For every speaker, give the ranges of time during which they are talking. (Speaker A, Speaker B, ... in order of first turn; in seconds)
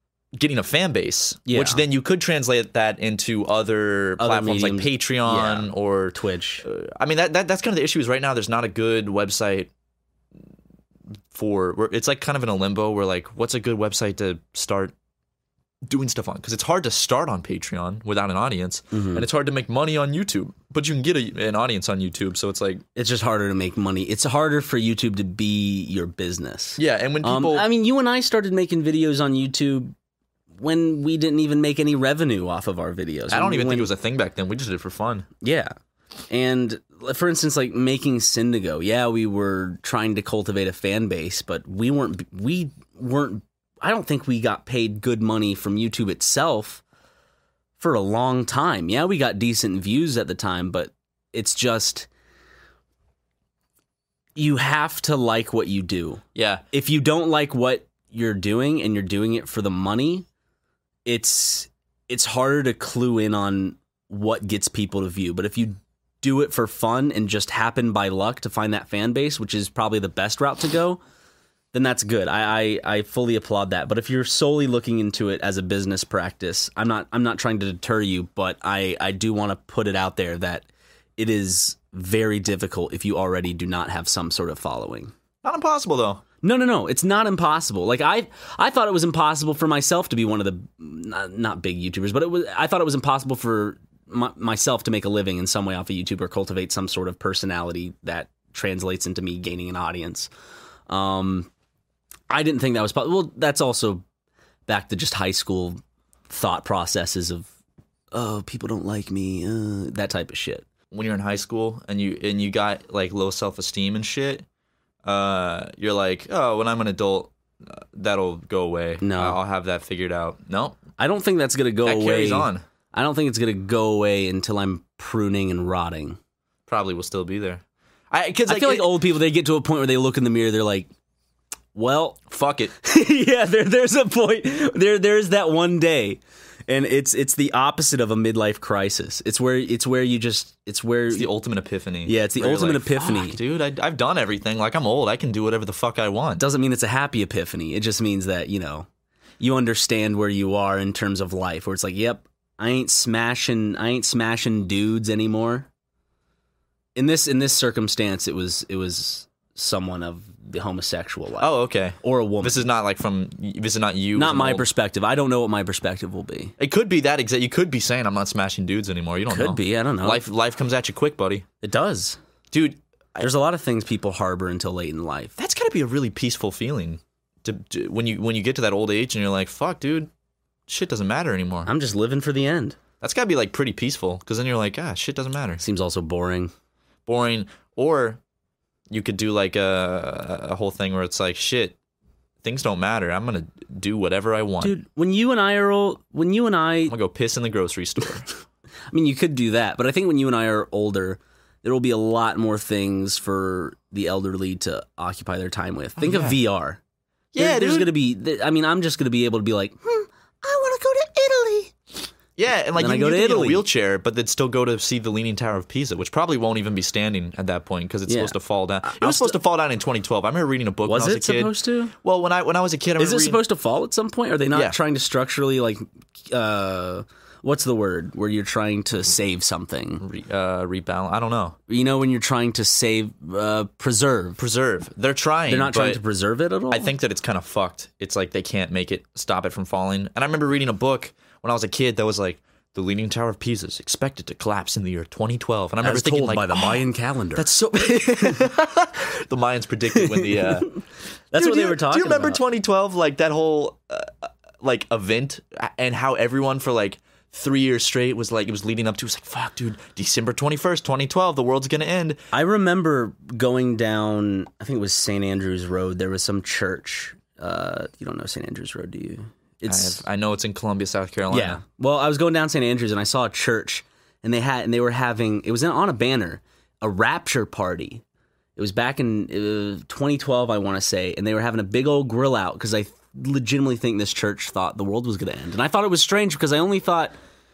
Speaker A: 0.3-9.7, 11.3-14.9, 15.8-22.8, 26.8-27.7, 33.3-35.3, 56.4-56.6, 85.4-86.2, 110.9-114.5, 115.0-120.8, 121.8-122.6, 126.7-128.9, 132.3-132.7, 141.1-146.4, 161.4-164.7, 166.6-171.5, 172.5-173.3, 175.4-180.1, 180.7-181.7, 183.0-185.6, 187.1-188.2, 188.9-191.8, 192.4-194.8, 196.9-198.3, 206.0-206.4, 207.3-207.9, 212.4-223.4, 224.5-224.8, 230.0-231.6, 234.4-236.0, 236.7-250.8, 251.3-262.2, 269.7-271.6
Speaker B: 1.5-1.8, 4.2-6.7, 18.9-19.3, 22.9-29.9, 30.6-33.9, 35.4-35.8, 36.3-46.8, 47.8-52.1, 54.4-60.3, 61.1-71.0, 71.7-80.7, 81.2-85.1, 86.4-100.3, 100.9-101.5, 102.3-104.0, 104.7-107.5, 108.1-110.7, 119.0-119.4, 121.0-126.2, 128.5-130.9, 131.7-132.2, 132.8-141.3, 142.1-143.4, 146.4-148.9, 149.4-155.7, 156.9-162.7, 164.2-166.6, 169.3-170.2, 171.6-172.2, 173.2-175.3, 181.7-182.8, 185.6-186.5, 194.6-196.9, 198.9-206.8, 207.4-212.1, 212.8-213.7, 218.1-219.4, 220.8-221.9, 223.0-230.0, 231.7-234.4, 235.5-236.9, 245.8-247.5, 250.0-250.8, 251.3-252.4, 262.3-270.0, 271.3-278.0, 278.6-287.1